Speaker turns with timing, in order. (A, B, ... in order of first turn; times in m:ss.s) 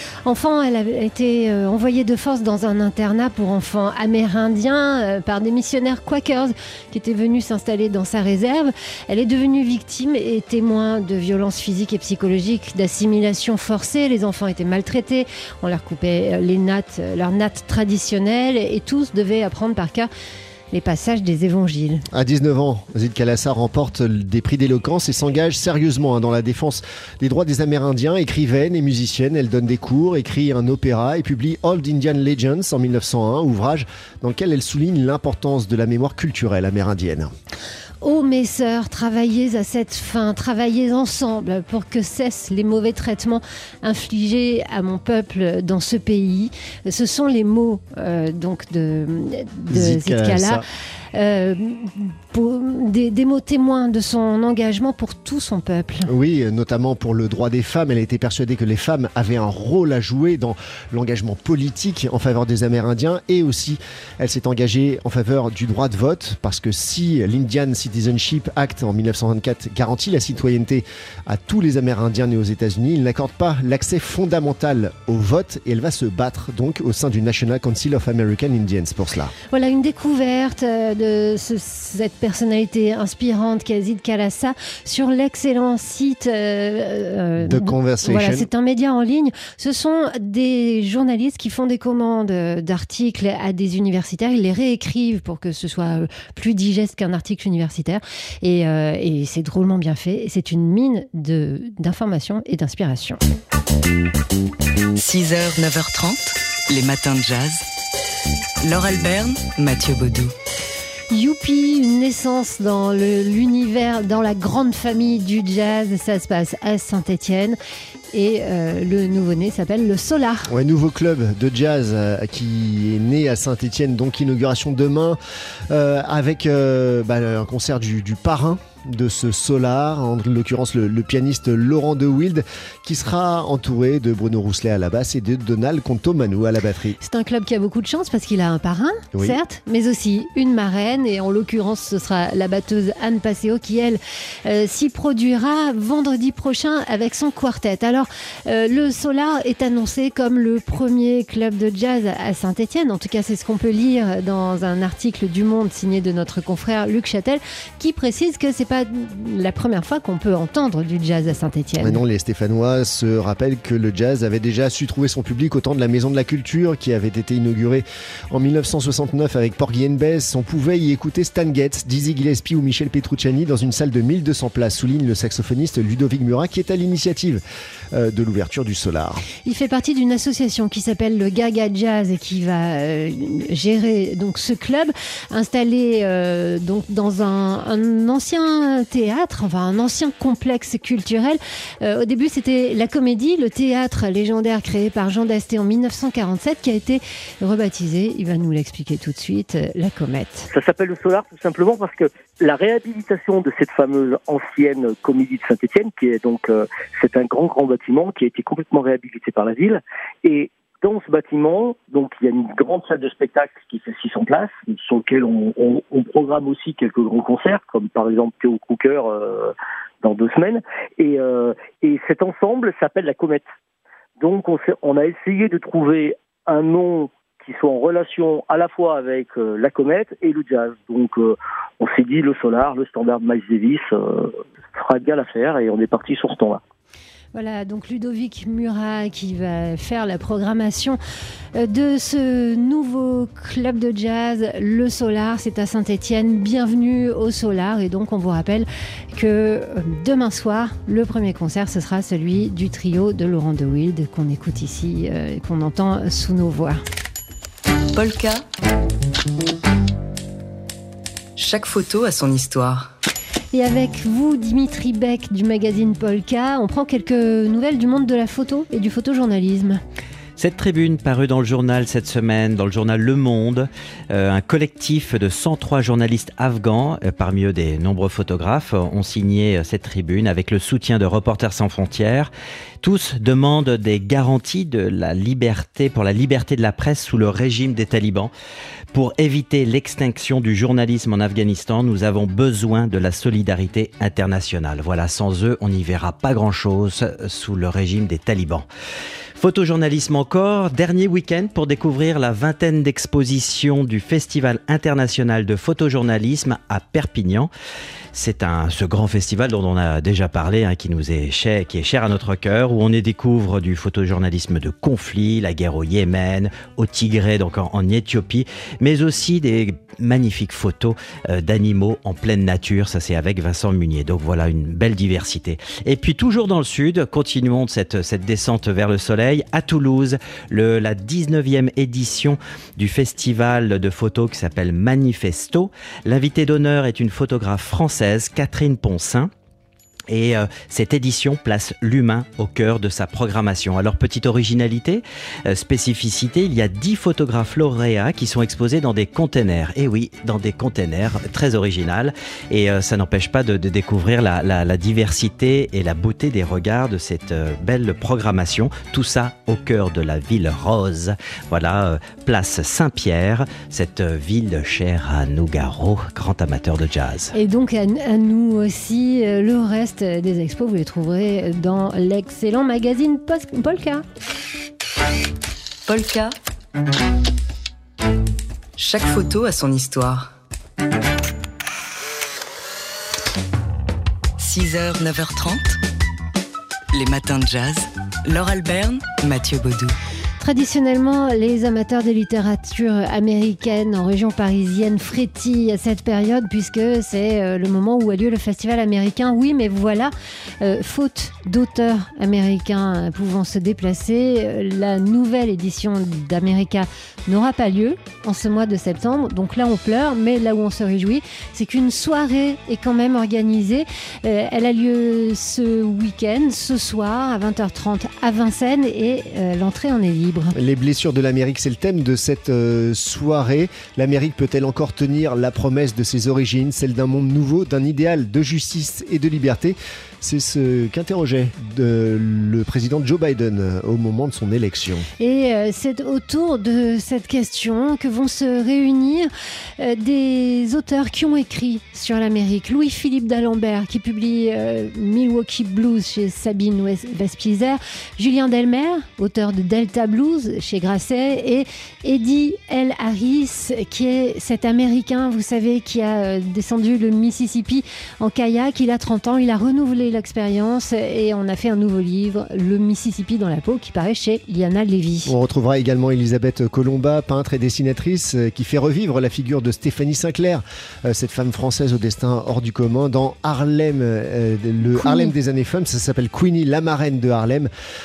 0:00.2-0:20.1 A
0:20.7-0:22.0 A
0:22.1-0:37.3 B
0:38.0-0:50.6 A
0:49.7-0:50.6 B
0:51.1-0:56.1 A
0:56.1-1:19.3 B
1:19.5-1:43.2 A
1:27.4-1:28.5 B
1:45.0-1:47.6 C
1:48.6-1:50.3 C
1:51.1-1:57.6 A
1:58.1-2:00.5 A
2:00.5-2:05.2 B
2:05.7-2:17.0 B
2:17.0-2:42.0 A
2:19.1-2:19.4 B
2:41.8-2:59.2 B
2:59.4-3:20.5 A
3:20.5-3:39.5 D
3:40.0-3:43.4 D
3:44.2-3:56.6 D
3:57.3-4:01.0 A
4:01.6-4:16.8 A
4:17.9-4:18.4 C
4:21.4-4:22.9 C
4:23.5-4:29.8 A
4:30.4-4:48.3 E
4:48.9-4:58.7 E
4:59.4-5:07.5 E
5:08.1-5:39.3 E
5:40.1-6:07.3 E
6:07.3-6:14.0 A
6:15.9-6:16.4 C
6:18.8-6:20.3 C
6:24.4-6:25.8 C
6:26.9-6:30.0 C
6:30.4-7:00.6 A
7:00.6-7:15.1 B
7:15.2-7:45.3 A
7:45.3-7:57.7 B
7:54.9-7:55.3 A